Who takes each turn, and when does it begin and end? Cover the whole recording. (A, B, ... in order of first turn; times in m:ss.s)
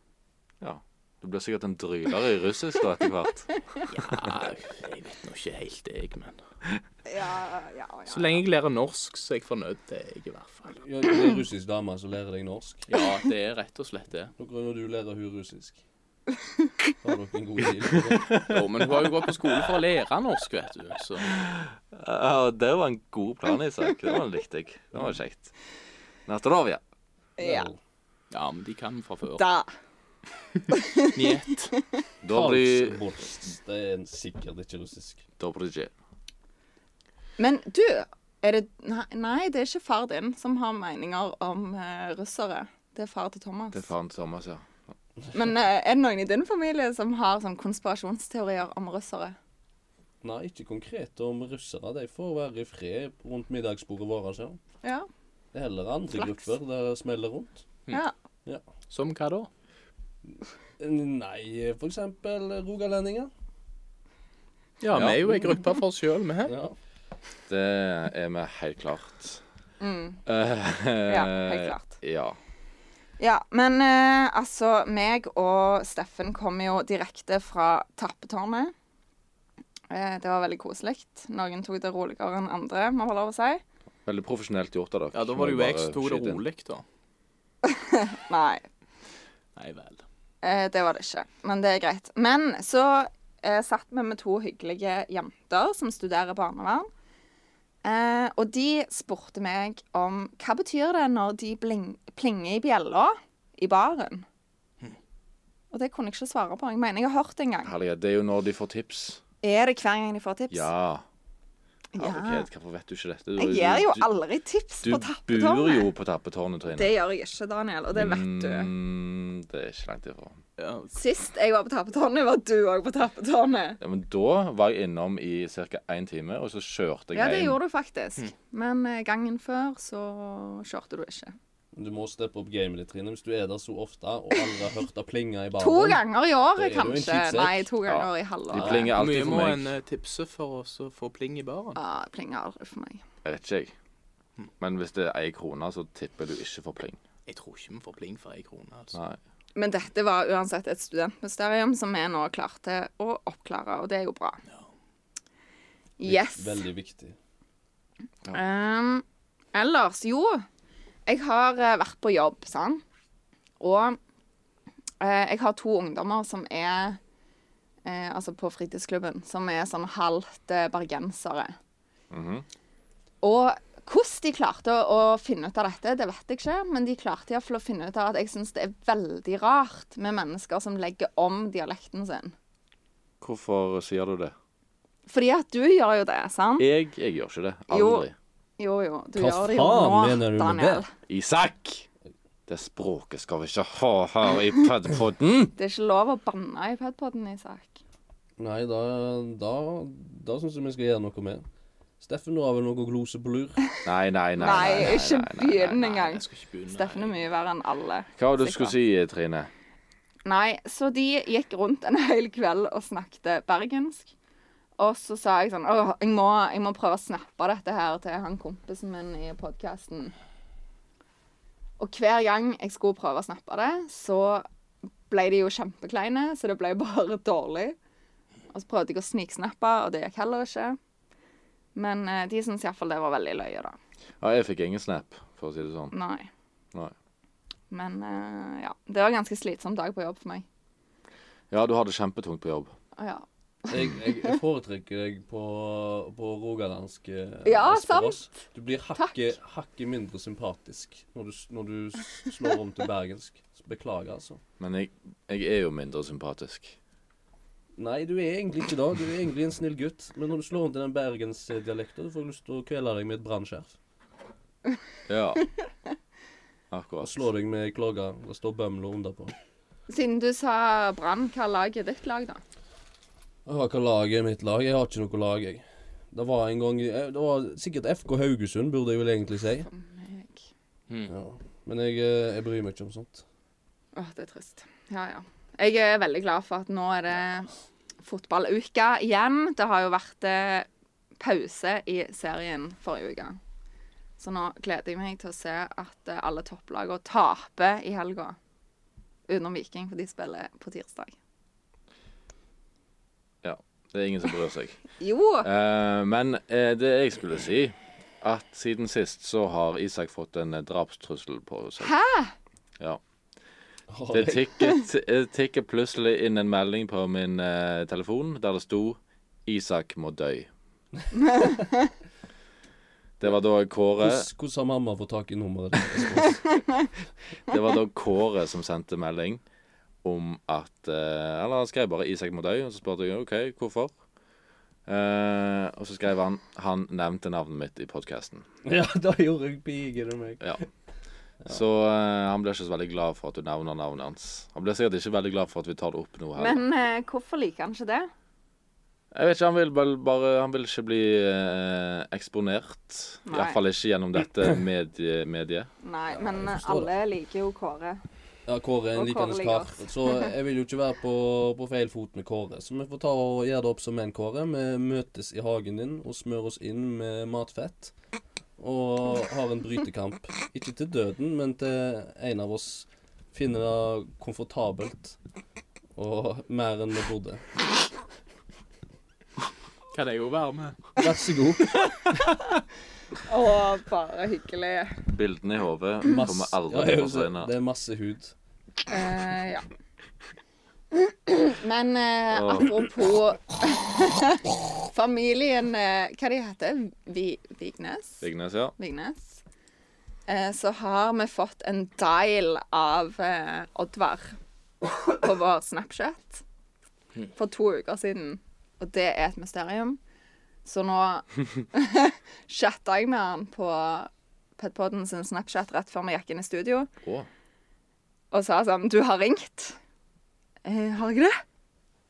0:00.6-0:03.5 A
0:03.9-0:06.4 B
0:07.1-0:08.4 C
0:08.1-0:10.8 B
0:10.8-0:12.9 D
0:12.9-0:14.3 B
0:14.4-0:15.8 D
0:17.0-0:18.3 D
0:18.1-0:19.2 A
0:18.4-0:21.4 B
0:21.4-0:25.5 A
0:26.3-0:26.8 A
0:27.4-0:27.7 C
0:27.4-0:27.8 D
0:28.3-0:29.4 B
0:29.4-0:29.7 C
0:30.7-0:31.2 C
0:31.0-0:31.8 B
0:32.2-0:33.0 A
0:32.3-0:35.2 D
0:35.4-0:35.9 A
0:37.4-0:43.9 C
0:43.7-0:44.7 A
0:45.3-0:49.4 C
0:50.2-0:54.6 D
0:54.8-0:55.1 C
0:55.5-0:57.6 D
0:56.1-0:56.5 C
0:58.9-0:59.5 B
1:00.8-1:03.3 D
1:04.8-1:06.6 B
1:04.9-1:05.2 A
1:06.5-1:06.8 D
1:07.5-1:09.4 A
1:09.8-1:10.2 C
1:10.3-1:12.4 A
1:11.1-1:12.0 C
1:13.2-1:18.7 C
1:19.9-1:23.6 C
1:24.1-1:26.4 A
1:25.1-1:26.8 B
1:27.6-1:28.7 C
1:29.6-1:30.0 B
1:30.4-1:36.9 C
1:37.8-1:44.3 C
1:45.7-1:47.7 C
1:47.6-1:49.2 A
1:49.4-1:50.7 C
1:50.5-1:51.0 A
1:51.9-1:52.5 C
1:52.0-1:54.1 A
1:53.4-1:55.9 C
1:54.8-1:56.9 A
1:56.7-1:58.7 C
1:57.9-2:00.4 A
2:00.6-2:01.0 B
2:01.0-2:03.8 C
2:03.8-2:07.6 A
2:07.1-2:11.4 C
2:11.7-2:16.0 D
2:15.6-2:18.9 C
2:16.6-2:17.7 D
2:17.9-2:19.7 A
2:19.0-2:21.8 B
2:21.8-2:23.0 C
2:23.2-2:23.7 A
2:24.6-2:27.0 A
2:27.3-2:29.0 B
2:28.9-2:29.2 A
2:29.6-2:34.4 C
2:36.0-2:36.7 C
2:36.0-2:37.2 D
2:38.3-2:40.4 C
2:41.1-2:42.8 C
2:43.6-2:44.0 C
2:45.0-2:47.0 C
2:47.8-2:51.6 C
2:52.1-2:52.4 A
2:53.2-3:02.4 C
3:03.2-3:04.3 A
3:05.1-3:06.7 C
3:06.6-3:08.1 A
3:07.7-3:08.1 C
3:08.6-3:10.9 C
3:09.2-3:10.8 D
3:11.1-3:11.9 A
3:12.5-3:15.5 A
3:15.6-3:17.8 C
3:18.4-3:21.4 D
3:22.0-3:23.6 D
3:23.8-3:26.0 A
3:24.4-3:28.7 C
3:25.7-3:27.2 B
3:28.2-3:29.5 A
3:30.2-3:34.1 C
3:34.8-3:40.1 C
3:41.8-3:44.4 C
3:45.1-3:47.8 C
3:48.5-3:50.8 C
3:51.8-3:53.8 C
3:54.2-3:55.9 A
3:55.9-3:56.3 C
3:57.7-4:00.4 C
4:01.5-4:02.7 A
4:03.0-4:04.4 C
4:03.7-4:14.4 D
4:07.4-4:08.3 C
4:14.6-4:16.8 A
4:17.8-4:23.7 D
4:25.1-4:25.4 A
4:26.7-4:27.3 A
4:27.0-4:29.3 D
4:29.9-4:32.4 C
4:33.5-4:39.7 D
4:39.6-4:40.4 C
4:41.1-4:43.2 D
4:44.0-4:47.5 C
4:48.0-4:50.7 C
4:51.2-4:53.4 C
4:54.2-4:58.4 C
4:59.3-5:01.2 C
5:03.4-5:04.8 A
5:05.0-5:05.5 C
5:05.4-5:11.9 A
5:11.8-5:12.3 C
5:13.9-5:14.4 D
5:14.1-5:20.5 A
5:21.1-5:21.9 C
5:23.2-5:24.3 A
5:24.0-5:26.6 D
5:27.5-5:29.4 A
5:30.0-5:34.0 A
5:34.9-5:38.4 A
5:38.6-5:40.7 D
5:41.5-5:46.6 A
5:46.4-5:48.1 C
5:49.1-5:55.7 A
5:53.3-5:53.6 C
5:55.8-5:58.0 C
5:56.2-5:56.9 D
5:58.5-6:07.9 D
5:59.0-6:00.3 C
6:08.6-6:15.2 D
6:16.0-6:17.4 D
6:19.9-6:20.9 B
6:21.0-6:22.3 D
6:23.3-6:25.0 C
6:25.1-6:27.5 A
6:26.2-6:28.3 D
6:28.9-6:29.7 C
6:30.9-6:38.2 C
6:32.3-6:32.8 A
6:38.2-6:38.7 A
6:38.8-6:39.4 C
6:40.3-6:44.4 C
6:45.0-6:46.4 C
6:47.4-6:50.0 C
6:50.6-6:56.9 C
6:57.0-6:57.3 A
6:58.3-6:59.8 C
7:00.6-7:01.4 C